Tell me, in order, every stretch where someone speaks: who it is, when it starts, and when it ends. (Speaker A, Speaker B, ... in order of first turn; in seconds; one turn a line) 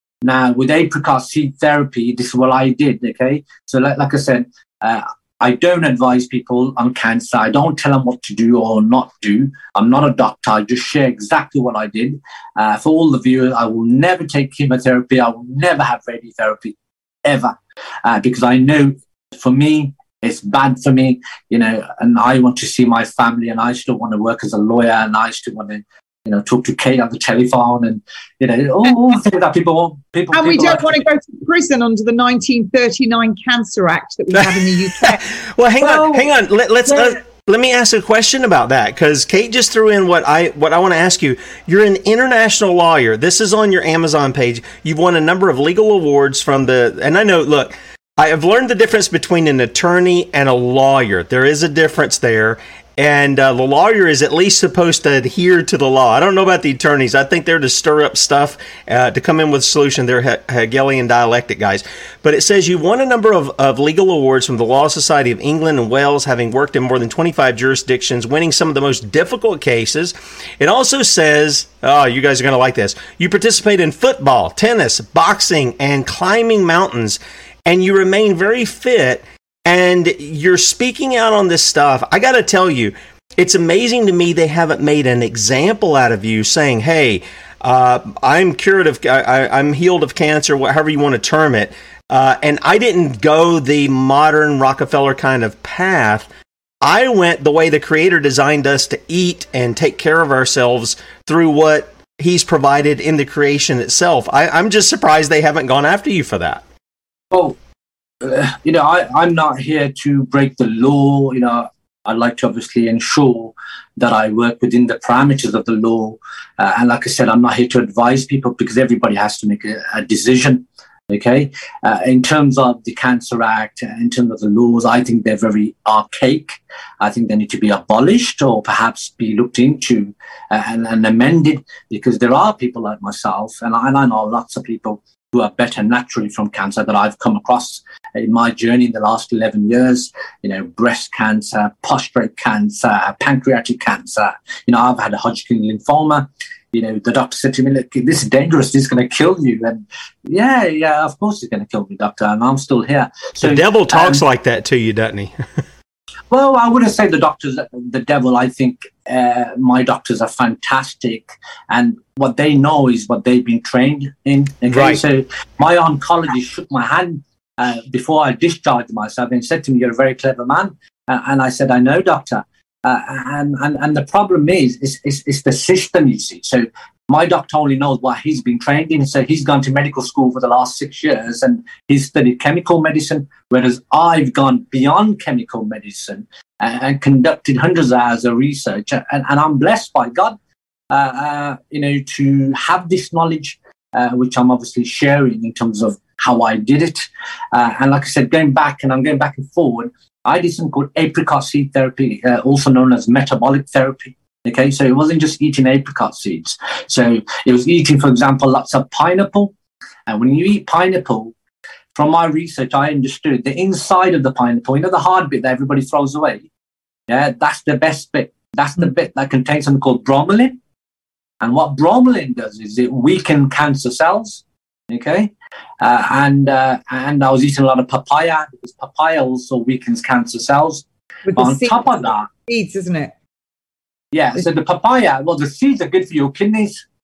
Speaker A: 0.2-30.9
Speaker B: 30.3-35.2
Speaker C: 34.3-96.3
Speaker B: 35.8-36.2
Speaker C: 96.8-106.6
Speaker A: 107.3-107.6
Speaker A: 108.2-154.2
Speaker C: 153.4-155.4
Speaker A: 156.3-190.3
Speaker C: 164.7-165.0
Speaker A: 190.9-209.5
Speaker A: 210.1-211.3
Speaker A: 211.9-216.5
Speaker A: 217.1-220.6
Speaker A: 221.4-232.3
Speaker B: 231.3-233.1
Speaker A: 234.1-236.8